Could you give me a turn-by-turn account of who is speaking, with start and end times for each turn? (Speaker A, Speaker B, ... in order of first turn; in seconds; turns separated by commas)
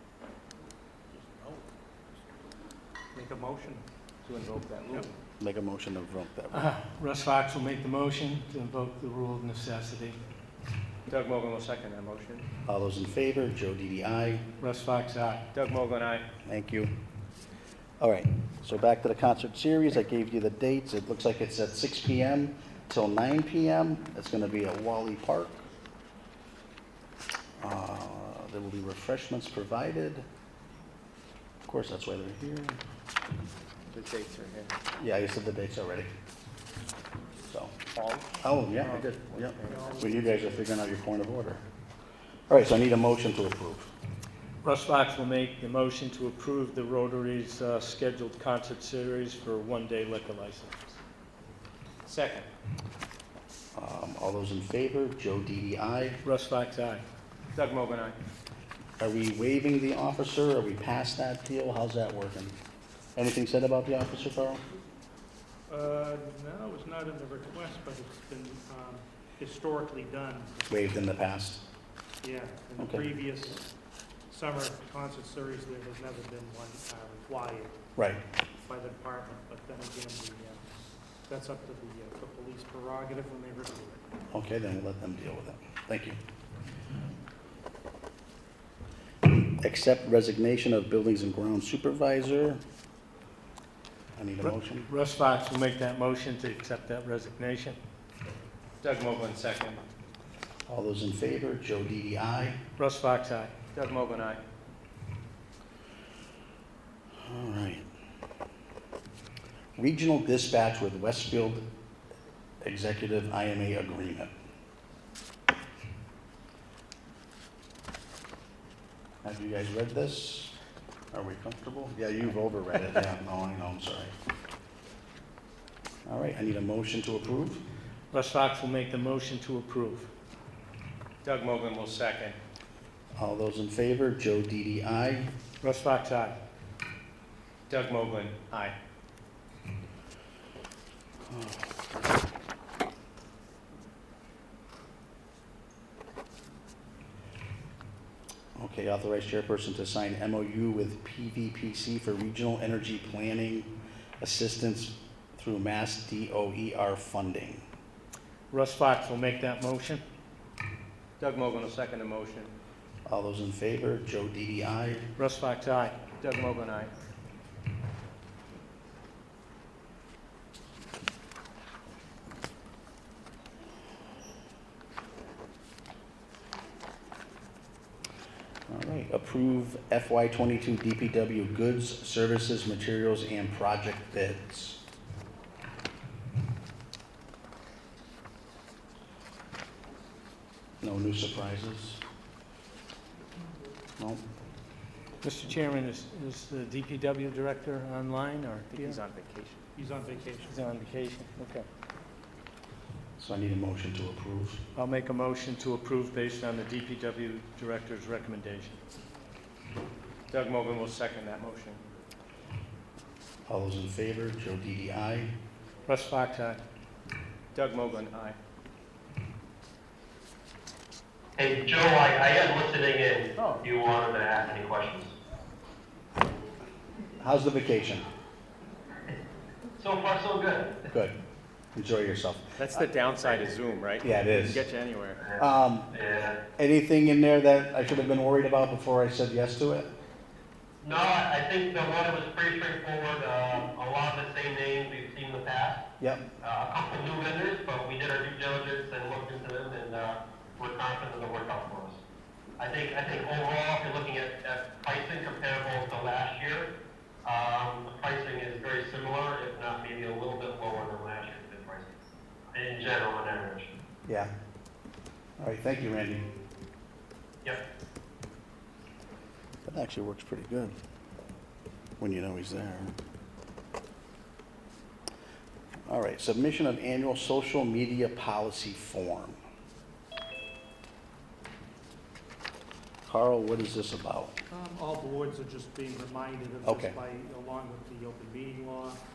Speaker A: 3.1-3.9, Speaker B: 4.2-5.1, Speaker C: 5.4-6.7, Speaker D: 6.5-10.2, Speaker B: 11.1-12.5, Speaker C: 12.7-14.4, Speaker D: 14.6-15.4, Speaker B: 15.5-16.2, Speaker C: 16.4-16.9, Speaker C: 18.0-25.6, Speaker C: 27.6-30.3, Speaker C: 31.7-32.8, Speaker B: 33.9-34.7, Speaker C: 35.0-36.1, Speaker C: 37.5-37.8, Speaker B: 37.9-38.3, Speaker C: 38.4-41.6, Speaker B: 38.9-40.0, Speaker A: 39.7-40.7, Speaker C: 42.5-43.9, Speaker D: 44.6-51.0, Speaker B: 52.0-52.5, Speaker C: 53.8-56.2, Speaker D: 56.2-57.0, Speaker B: 57.5-58.2, Speaker C: 59.0-62.6, Speaker C: 63.2-64.6, Speaker A: 65.7-70.6, Speaker C: 70.7-71.6, Speaker A: 72.2-73.7, Speaker C: 72.8-73.1, Speaker A: 74.3-77.8, Speaker C: 78.0-78.2, Speaker A: 78.7-80.6, Speaker A: 81.3-84.0, Speaker C: 84.3-86.2, Speaker C: 89.6-92.6, Speaker C: 94.2-94.9, Speaker D: 94.4-97.8, Speaker B: 98.8-99.8, Speaker C: 100.7-102.6, Speaker D: 102.8-103.5, Speaker B: 103.7-104.4, Speaker C: 107.2-107.9, Speaker C: 109.8-111.7, Speaker C: 112.6-114.3, Speaker C: 119.2-120.5, Speaker C: 121.1-124.1, Speaker C: 126.1-127.6, Speaker D: 128.1-130.1, Speaker B: 131.2-132.4, Speaker C: 133.2-135.3, Speaker D: 135.6-136.4, Speaker B: 137.7-138.7, Speaker C: 141.3-141.7, Speaker C: 148.6-157.7, Speaker D: 158.5-160.0, Speaker B: 161.2-162.5, Speaker C: 163.1-165.1, Speaker D: 165.2-166.0, Speaker B: 166.2-166.9, Speaker C: 178.7-184.8, Speaker C: 190.8-192.0, Speaker C: 194.0-194.2, Speaker D: 195.2-199.0, Speaker B: 198.7-199.6, Speaker A: 199.8-200.7, Speaker D: 200.4-201.7, Speaker C: 203.2-204.6, Speaker D: 204.8-208.8, Speaker B: 210.3-211.8, Speaker C: 213.5-215.3, Speaker D: 215.9-216.6, Speaker B: 217.5-218.4, Speaker E: 221.4-225.1, Speaker B: 223.4-223.6, Speaker C: 227.2-228.1, Speaker E: 229.8-230.9, Speaker C: 230.9-231.2, Speaker C: 231.8-232.6, Speaker B: 232.6-235.2, Speaker E: 233.2-233.6, Speaker C: 234.0-234.6, Speaker E: 235.2-236.4, Speaker C: 235.4-235.9, Speaker C: 236.6-239.9, Speaker E: 240.8-245.8, Speaker E: 246.4-252.0, Speaker E: 252.6-256.7, Speaker E: 257.2-261.9, Speaker E: 262.5-263.7, Speaker C: 264.1-264.3, Speaker C: 265.4-266.3, Speaker C: 269.6-270.8, Speaker C: 272.0-272.9, Speaker C: 275.9-279.4, Speaker C: 283.1-284.4, Speaker A: 284.5-289.0, Speaker C: 286.6-287.0